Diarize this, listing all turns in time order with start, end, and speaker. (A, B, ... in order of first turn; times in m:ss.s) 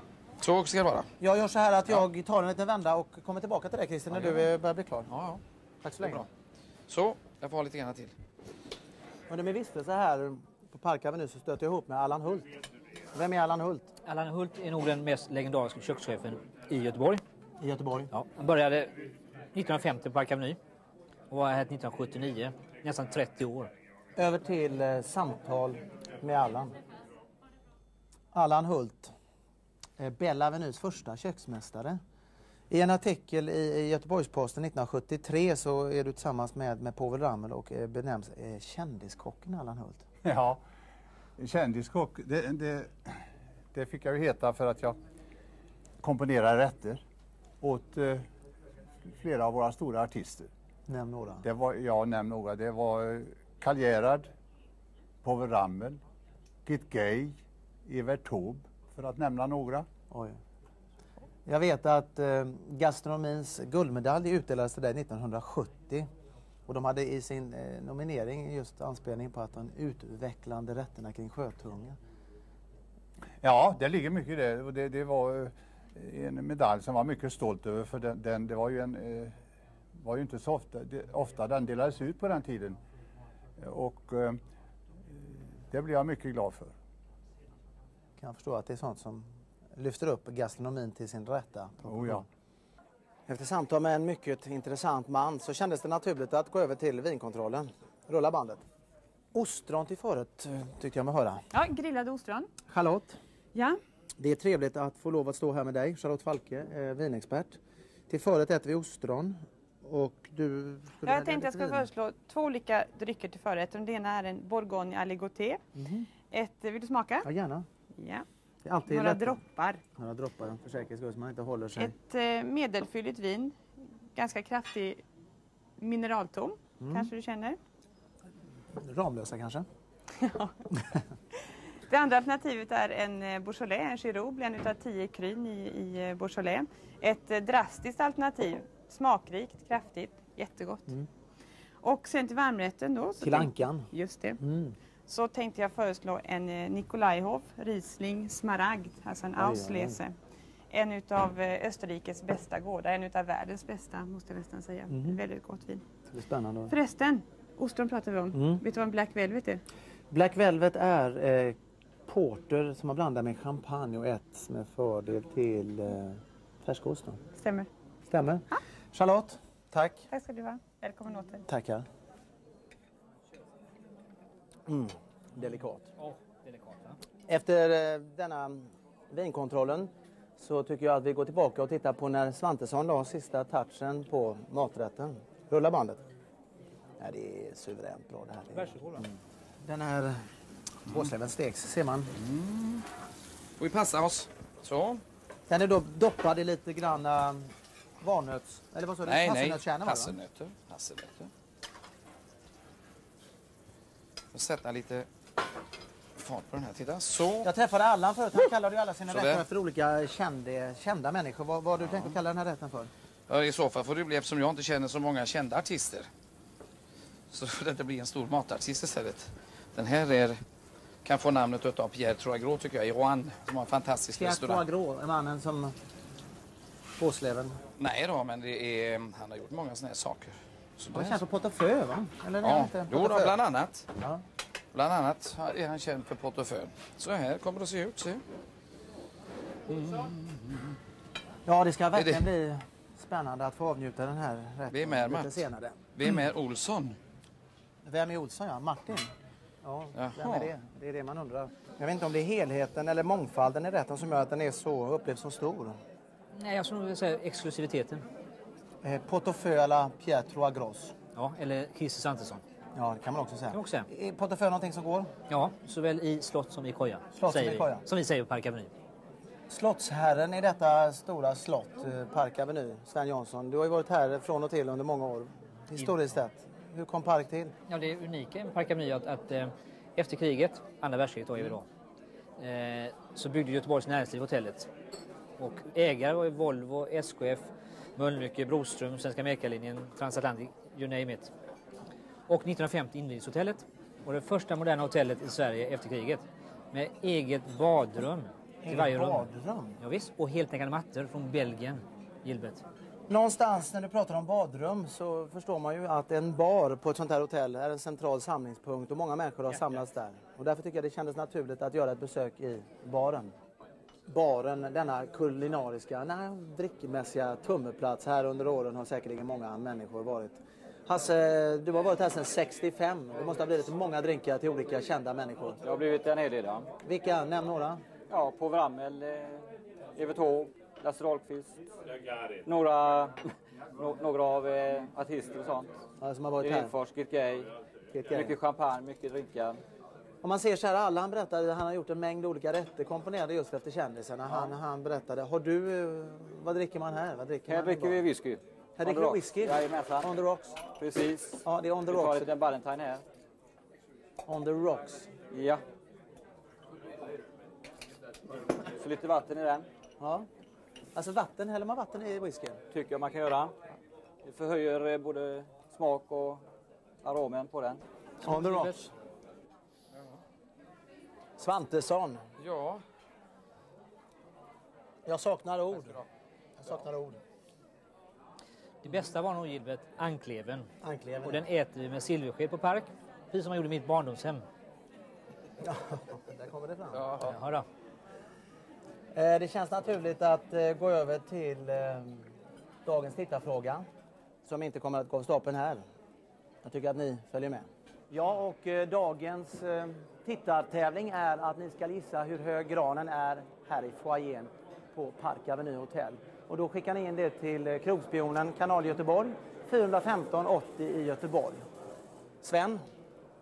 0:00.4-0:01.1 A
0:01.2-0:05.1 B
0:04.1-0:04.5 A
0:05.1-0:05.4 A
0:05.8-0:06.2 B
0:06.0-0:06.3 A
0:06.9-0:08.1 A
0:09.3-0:12.5 B
0:13.1-0:13.9 B
0:14.0-0:17.2 C
0:17.6-0:18.1 B
0:18.1-0:18.9 C
0:19.5-0:20.6 C
0:21.3-0:23.7 C
0:24.2-0:26.8 B
0:28.3-0:29.1 B
0:30.0-0:32.0 B
0:32.7-0:40.0 B
0:40.2-0:40.6 D
0:41.4-0:43.2 D
0:43.7-0:45.0 D
0:46.0-0:47.0 D
0:47.6-0:48.3 D
0:49.1-0:50.5 D
0:50.9-0:51.4 B
0:51.4-0:54.3 D
0:55.2-0:56.0 D
0:56.6-0:59.9 D
1:00.1-1:00.4 B
1:01.4-1:06.1 B
1:06.7-1:12.0 B
1:13.4-1:19.3 D
1:20.0-1:22.8 D
1:23.6-1:24.4 D
1:25.1-1:26.7 D
1:28.2-1:32.2 B
1:31.8-1:32.2 D
1:33.3-1:38.6 B
1:39.3-1:41.4 B
1:41.5-1:42.5 E
1:42.7-1:43.2 B
1:44.2-1:47.6 B
1:48.1-1:51.8 B
1:51.0-1:55.6 E
1:55.8-1:56.1 B
1:56.3-1:57.3 E
1:57.2-1:57.6 B
1:58.0-1:58.2 E
1:58.6-1:59.4 B
1:58.8-1:59.8 E
2:00.0-2:01.9 B
2:01.8-2:03.5 E
2:04.1-2:05.0 E
2:05.8-2:07.6 E
2:06.8-2:07.1 B
2:08.8-2:09.6 B
2:10.2-2:10.5 E
2:11.9-2:20.9 E
2:21.8-2:24.4 E
2:23.2-2:23.9 B
2:24.4-2:24.8 B
2:25.1-2:30.1 E
2:29.4-2:30.0 B
2:30.7-2:35.8 E
2:34.9-2:35.2 B
2:36.1-2:36.7 B
2:36.7-2:39.6 E
2:38.3-2:38.6 B
2:40.1-2:41.6 B
2:42.1-2:47.2 B
2:47.4-2:47.7 E
2:48.1-2:50.1 B
2:50.1-2:51.4 E
2:51.5-2:51.8 B
2:54.7-2:55.9 B
2:56.0-2:57.0 C
2:57.3-3:06.0 B
3:07.0-3:10.2 B
3:08.5-3:09.0 C
3:10.8-3:12.1 B
3:12.2-3:12.8 A
3:13.6-3:15.0 A
3:15.5-3:20.2 B
3:19.0-3:21.3 A
3:24.3-3:25.1 A
3:26.2-3:27.5 A
3:27.4-3:32.9 B
3:29.1-3:29.4 A
3:31.8-3:32.1 A
3:33.3-3:36.1 A
3:37.3-3:40.4 A
3:41.0-3:44.6 A
3:44.1-3:45.7 B
3:47.0-3:47.6 B
3:47.8-3:51.2 A
3:50.9-3:53.3 B
3:52.4-3:53.9 A
3:54.7-3:58.2 A
3:59.7-4:00.7 A
4:01.4-4:05.8 B
4:01.9-4:02.2 A
4:04.7-4:07.0 A
4:07.8-4:09.1 B
4:09.6-4:15.8 B
4:09.9-4:10.5 A
4:16.3-4:18.0 C
4:18.8-4:20.9 B
4:21.1-4:22.4 C
4:22.7-4:25.1 B
4:23.5-4:23.9 C
4:25.3-4:28.7 C
4:27.1-4:27.8 B
4:29.5-4:37.5 B
4:37.7-4:41.6 C
4:42.4-4:44.7 C
4:45.4-4:51.3 C
4:52.3-5:02.6 C
4:58.6-4:59.8 B
5:03.1-5:13.3 B
5:14.1-5:25.6 B
5:25.6-5:26.7 F
5:26.8-5:27.8 B
5:28.1-5:31.6 F
5:32.4-5:33.2 F
5:33.8-5:35.7 F
5:36.0-5:36.7 B
5:36.4-5:37.5 F
5:37.9-5:38.4 B
5:38.1-5:39.6 F
5:40.2-5:48.0 B
5:47.5-5:50.1 F
5:48.8-5:50.6 B
5:50.8-5:53.0 F
5:51.4-5:52.3 B
5:54.2-5:55.1 B
5:55.3-5:55.6 F
5:58.6-5:59.7 F
6:00.0-6:00.3 B
6:00.9-6:02.6 B
6:02.7-6:03.5 F
6:04.2-6:06.4 F
6:07.0-6:07.8 F
6:08.2-6:08.9 B
6:08.3-6:08.7 C
6:11.4-6:12.2 B
6:12.4-6:12.8 A
6:15.0-6:16.0 B
6:16.6-6:17.2 B
6:18.8-6:20.7 C
6:20.8-6:21.4 B
6:21.2-6:24.4 C
6:25.6-6:27.0 B
6:26.9-6:27.3 A
6:27.2-6:27.6 C
6:29.1-6:32.3 B
6:32.8-6:33.8 B
6:34.4-6:35.8 B
6:36.6-6:51.6 B
6:52.4-6:52.8 B